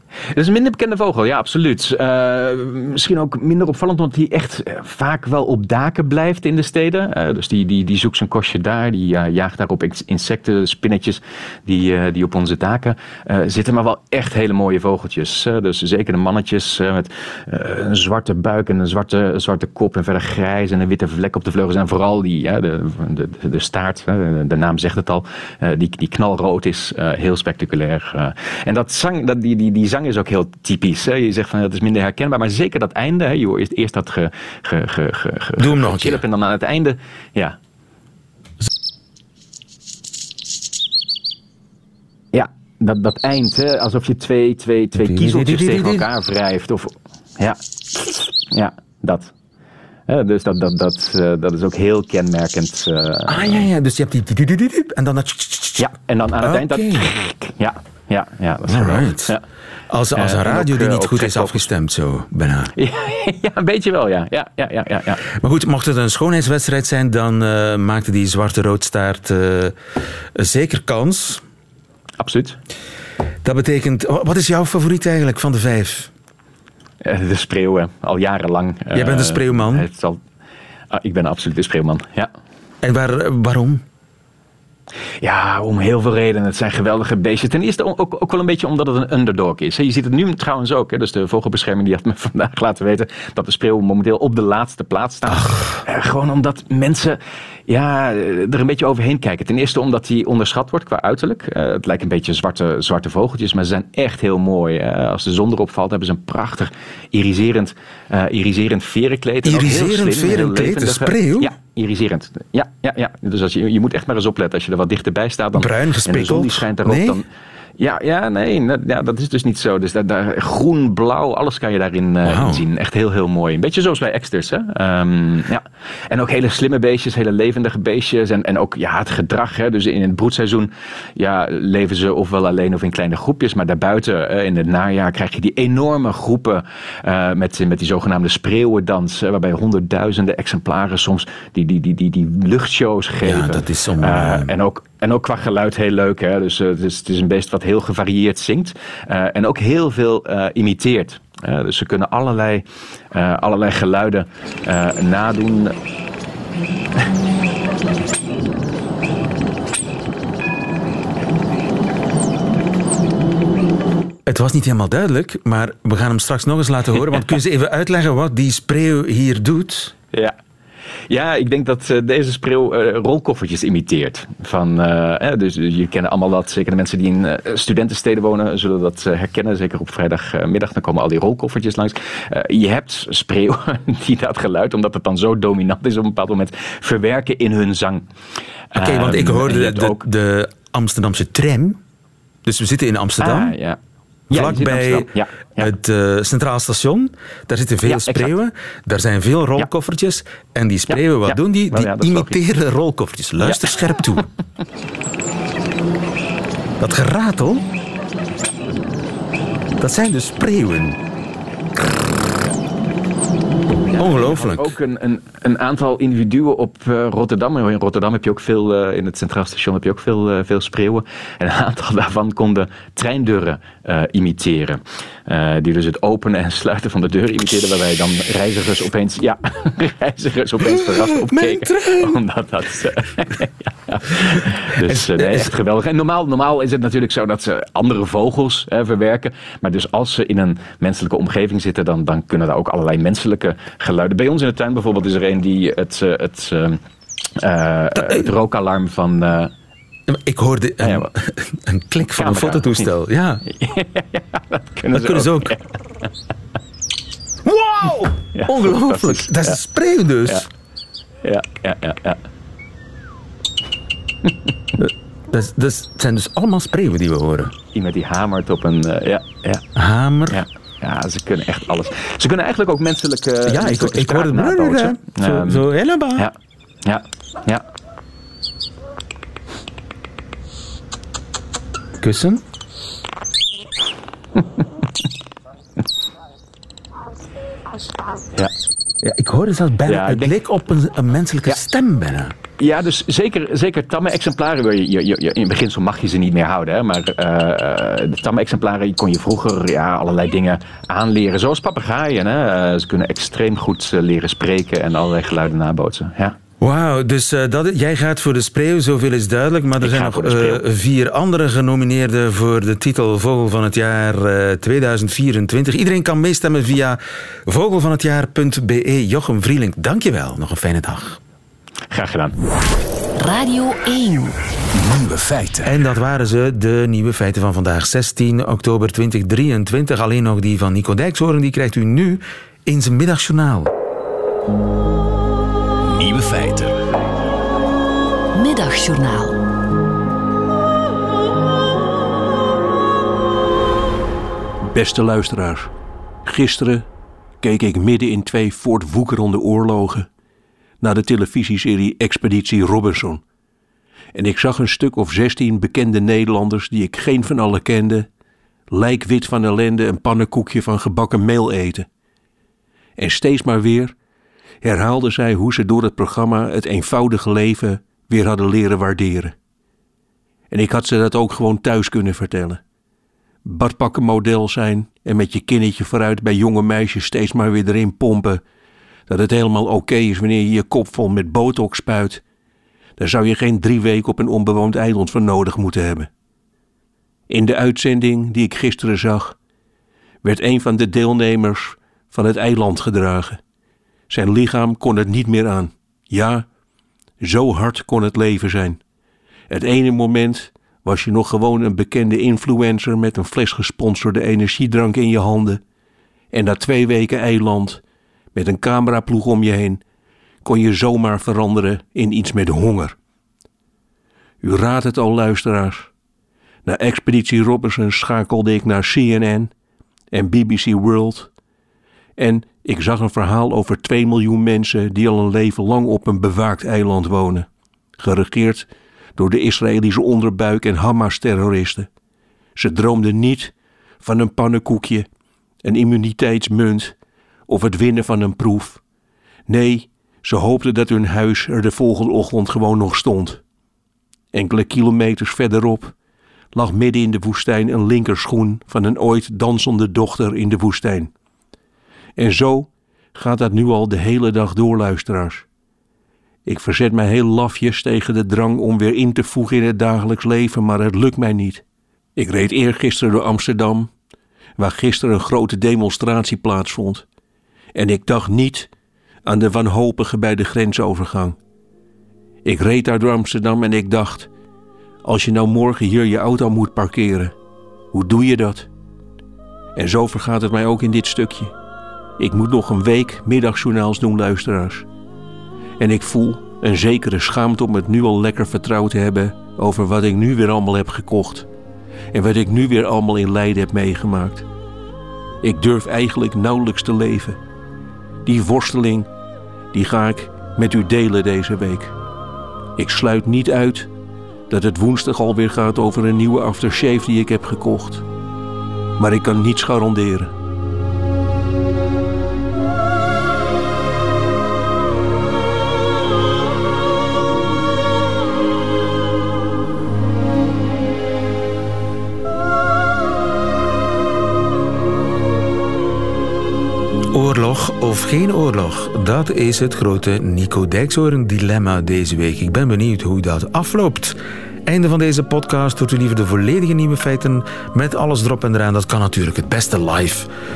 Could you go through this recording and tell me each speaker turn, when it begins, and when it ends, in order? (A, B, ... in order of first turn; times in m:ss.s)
0:00.3-0:37.6 A
0:35.6-0:36.2 B
0:42.3-0:49.3 A
0:45.0-0:46.1 B
0:50.1-0:53.7 A
0:53.3-0:57.1 B
0:55.8-0:59.4 A
0:58.7-0:59.3 B
0:59.9-1:02.7 B
1:00.1-1:01.7 A
1:02.8-1:05.2 A
1:05.3-1:09.8 B
1:10.3-1:11.4 B
1:12.2-1:12.6 A
1:13.4-1:16.1 B
1:17.0-1:20.2 A
1:18.9-1:19.9 B
1:20.9-1:22.3 A
1:22.8-1:23.8 B
1:25.2-1:57.2 A
1:35.3-1:35.8 B
1:49.4-1:51.5 B
1:55.5-1:57.2 B
1:57.8-2:35.7 A
2:02.2-2:02.6 B
2:23.2-2:24.5 B
2:44.2-2:49.9 B
2:51.1-3:08.0 A
3:08.7-3:10.0 A
3:08.7-3:11.8 B
3:12.4-3:13.6 B
3:13.2-3:13.8 A
3:14.3-3:15.7 A
3:14.3-3:24.3 B
3:17.8-3:18.3 A
3:20.9-3:22.4 A
3:23.4-3:24.2 A
3:26.8-3:27.6 B
3:29.8-3:31.0 B
3:33.9-4:06.8 A
3:34.0-3:34.8 B
3:50.7-3:52.2 B
3:54.8-3:55.5 B
4:07.4-4:09.5 A
4:10.1-4:13.4 B
4:10.8-4:11.1 A
4:12.0-4:12.9 A
4:13.5-4:15.7 A
4:14.9-4:15.5 B
4:17.4-4:20.5 B
4:18.3-4:19.6 A
4:21.2-4:22.2 A
4:24.8-4:27.5 B
4:27.7-4:29.6 A
4:29.8-4:30.4 B
4:30.3-4:35.6 A
4:33.4-4:36.3 B
4:36.2-4:37.6 A
4:42.0-4:42.4 B
4:49.0-4:52.4 B
4:49.8-4:50.4 A
4:52.6-5:06.4 A
5:06.6-5:21.2 B
5:09.8-5:10.6 A
5:21.9-5:22.4 A
5:23.2-5:24.4 C
5:24.7-5:25.8 D
5:25.6-5:33.7 B
5:35.8-5:36.9 D
5:38.3-5:39.4 C
5:44.6-5:45.7 E
5:46.2-5:46.8 E
5:47.4-5:50.1 E
5:50.8-5:53.2 E
5:54.1-5:58.1 E
5:58.7-6:01.9 E
6:03.0-6:03.9 E
6:04.6-6:09.3 E
6:10.5-6:12.6 E
6:13.4-6:18.4 E
6:19.1-6:22.2 E
6:23.0-6:26.1 E
6:27.3-6:29.4 E
6:30.2-6:33.4 E
6:34.1-6:36.4 E
6:37.2-6:38.8 E
6:39.5-6:45.6 E
6:46.3-6:47.8 E
6:48.3-6:49.8 E
6:50.4-6:52.9 E
6:54.4-6:55.9 E
6:56.6-6:59.5 E
7:00.1-7:01.3 E
7:02.2-7:07.5 E
7:08.0-7:11.9 E
7:12.6-7:15.1 E
7:15.6-7:16.9 E
7:17.5-7:18.8 E
7:19.5-7:23.4 E
7:24.3-7:25.9 E
7:26.5-7:31.1 E
7:32.2-7:35.4 E
7:36.4-7:41.6 E
7:42.2-7:43.9 E
7:44.6-7:47.0 E
7:47.7-7:48.7 E
7:49.2-7:51.4 E
7:52.4-7:54.3 E
7:55.0-7:57.3 E
7:57.9-7:58.7 E
7:59.7-8:01.5 E
8:02.2-8:04.9 E
8:05.8-8:11.5 E
8:12.1-8:14.4 E
8:15.4-8:17.4 E
8:18.2-8:19.1 E
8:19.7-8:22.0 E
8:22.8-8:23.9 E
8:24.5-8:28.0 E
8:29.0-8:30.3 E
8:47.1-9:00.3 B